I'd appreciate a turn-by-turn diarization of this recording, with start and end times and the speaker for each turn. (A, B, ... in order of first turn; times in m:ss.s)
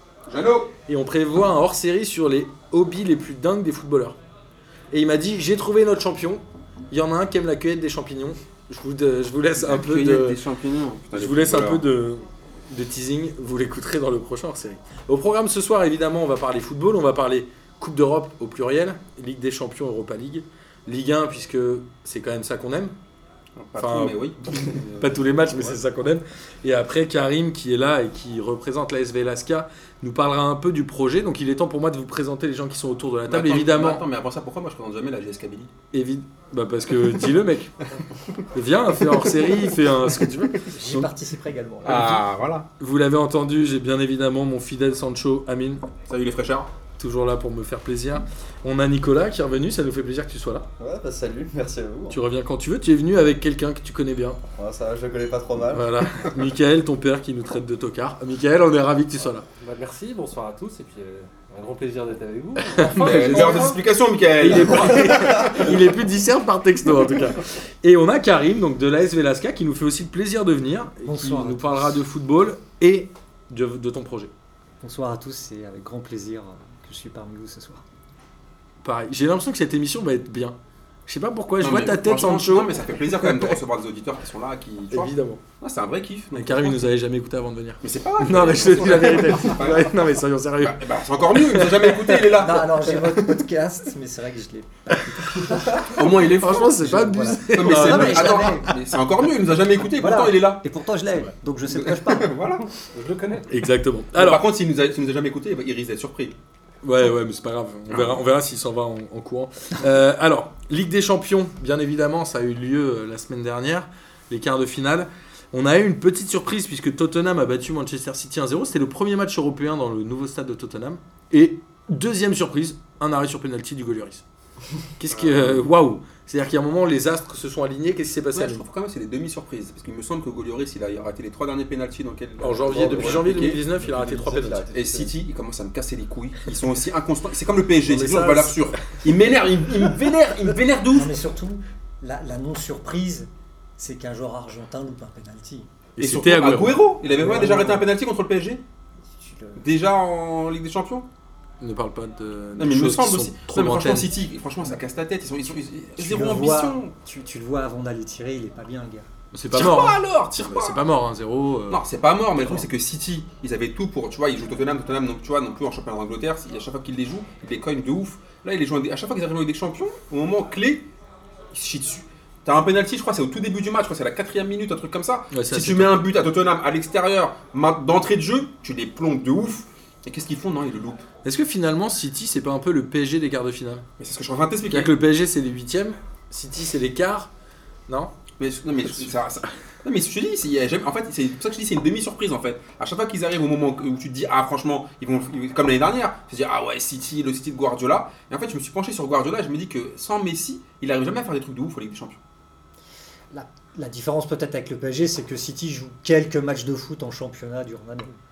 0:00.3-0:00.7 A
0:00.9-0:04.2 B
0:04.9-0:10.4 B
0:09.6-0:11.8 A
0:11.1-0:23.0 B
0:23.6-0:25.7 A
0:23.8-0:34.0 B
0:33.3-0:35.7 A
0:35.9-0:37.7 B
0:38.5-0:41.1 B
0:40.7-0:42.2 C
0:41.8-0:42.7 A
0:42.8-0:45.8 B
0:46.1-0:46.7 A
0:47.0-0:50.7 B
0:50.8-0:52.2 D
0:52.1-0:54.4 B
0:54.6-0:55.9 D
0:55.7-0:59.4 B
0:59.6-1:03.7 E
1:02.7-1:03.8 B
1:02.9-1:05.2 A
1:04.4-1:14.3 B
1:11.0-1:11.9 C
1:14.8-1:17.8 C
1:18.8-1:20.6 B
1:21.1-1:23.6 B
1:21.6-1:26.9 A
1:24.9-1:25.4 B
1:26.3-1:32.2 B
1:27.8-1:32.8 A
1:32.1-1:38.7 C
1:32.9-1:33.4 B
1:35.0-1:38.8 B
1:35.8-1:36.9 A
1:37.5-1:40.6 A
1:40.0-1:42.4 C
1:41.7-1:42.7 A
1:42.8-1:43.5 E
1:43.5-1:44.4 B
1:44.2-1:46.3 A
1:46.8-2:04.2 B
1:47.9-1:48.2 A
2:05.0-2:08.7 B
2:05.1-2:05.6 A
2:08.3-2:13.6 A
2:12.4-2:14.7 B
2:12.7-2:15.1 D
2:14.7-2:21.2 A
2:17.8-2:18.8 B
2:20.9-2:25.7 C
2:26.0-2:26.8 B
2:26.0-2:28.6 A
2:27.0-2:27.9 C
2:29.2-2:29.9 C
2:29.6-2:31.1 A
2:31.6-2:34.1 B
2:32.6-2:36.9 A
2:36.0-2:39.1 C
2:39.3-2:42.7 B
2:39.5-2:40.8 A
2:41.7-2:50.9 A
2:51.5-3:01.0 A
2:55.3-2:56.0 B
3:01.2-3:03.8 B
3:04.0-3:04.9 A
3:04.7-3:07.3 B
3:08.4-3:22.2 A
3:23.3-3:28.2 C